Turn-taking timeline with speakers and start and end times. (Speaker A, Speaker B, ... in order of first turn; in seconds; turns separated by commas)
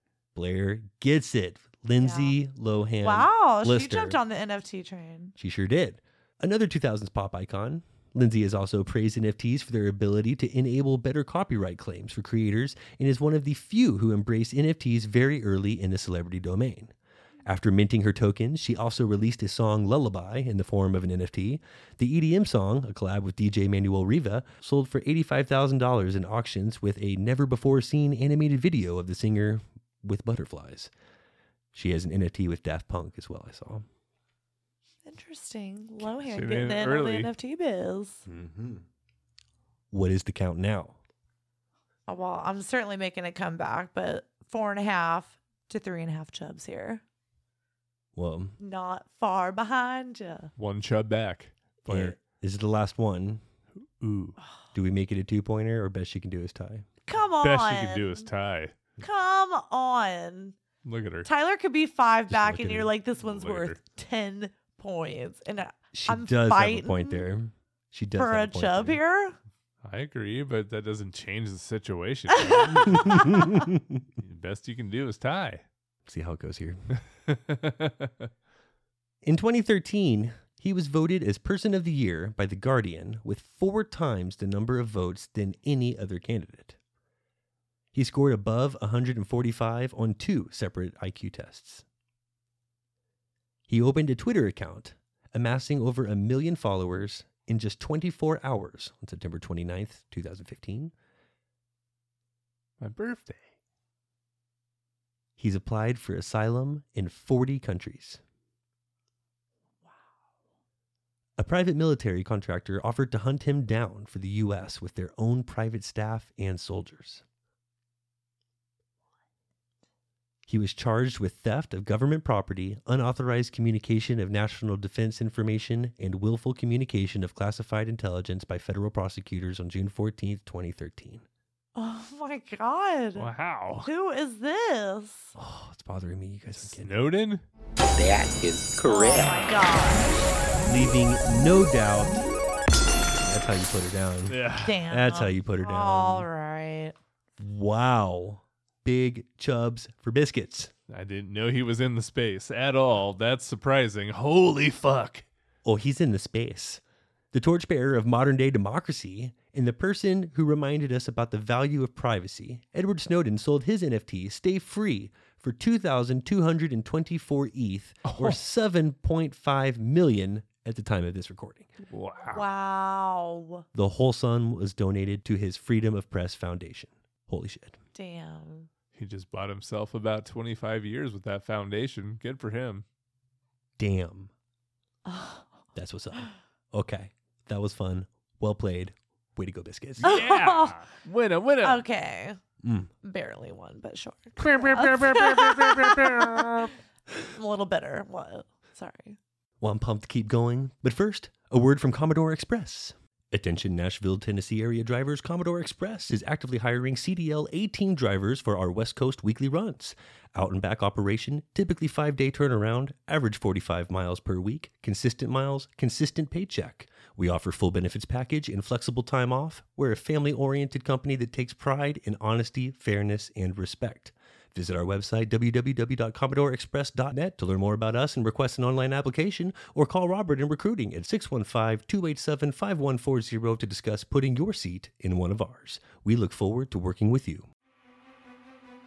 Speaker A: 0.3-4.2, Speaker B: 2.0-2.4, Speaker B: 3.0-5.3, Speaker A: 5.4-16.9, Speaker A: 17.4-30.9, Speaker A: 31.7-33.9, Speaker B: 35.0-38.3, Speaker C: 36.1-37.3, Speaker A: 38.3-38.8, Speaker A: 39.9-41.0, Speaker B: 42.1-47.0, Speaker A: 48.1-48.6, Speaker B: 48.6-50.5, Speaker C: 50.6-51.5, Speaker B: 51.9-52.1, Speaker A: 51.9-53.4, Speaker C: 53.8-54.4, Speaker A: 54.7-56.9, Speaker B: 57.1-58.3, Speaker C: 57.4-58.7, Speaker B: 59.0-60.6, Speaker C: 60.8-61.3, Speaker B: 61.2-67.2, Speaker A: 62.3-62.9, Speaker C: 63.2-63.8, Speaker A: 65.9-69.0, Speaker B: 68.2-69.4, Speaker C: 69.8-73.5, Speaker B: 72.4-73.4, Speaker A: 73.0-73.8, Speaker C: 74.2-75.6, Speaker A: 76.1-76.8, Speaker C: 77.3-78.3, Speaker A: 79.2-86.8, Speaker A: 87.9-91.8, Speaker A: 93.7-100.9, Speaker C: 102.8-103.4, Speaker A: 105.4-108.2, Speaker A: 111.4-117.2, Speaker A: 120.5-131.2, Speaker B: 131.8-133.3, Speaker C: 133.2-133.9, Speaker B: 133.8-135.3, Speaker A: 135.3-136.9, Speaker C: 136.6-137.4, Speaker B: 138.8-140.2, Speaker A: 140.6-142.3, Speaker A: 143.1-146.3, Speaker C: 144.3-144.8, Speaker B: 144.6-146.9, Speaker A: 147.4-150.7, Speaker C: 150.9-155.2, Speaker A: 155.6-156.8, Speaker A: 157.3-171.7, Speaker C: 168.0-168.4, Speaker C: 171.9-172.5, Speaker B: 172.3-173.7, Speaker A: 173.7-177.8, Speaker B: 177.9-178.7, Speaker C: 178.9-182.8, Speaker A: 183.8-184.3, Speaker B: 185.1-185.5, Speaker A: 185.8-190.1, Speaker C: 190.0-191.8, Speaker B: 190.0-190.8, Speaker B: 191.6-192.4, Speaker A: 192.6-192.9, Speaker B: 193.0-196.7, Speaker C: 194.4-196.7, Speaker B: 197.3-199.2, Speaker A: 199.6-237.5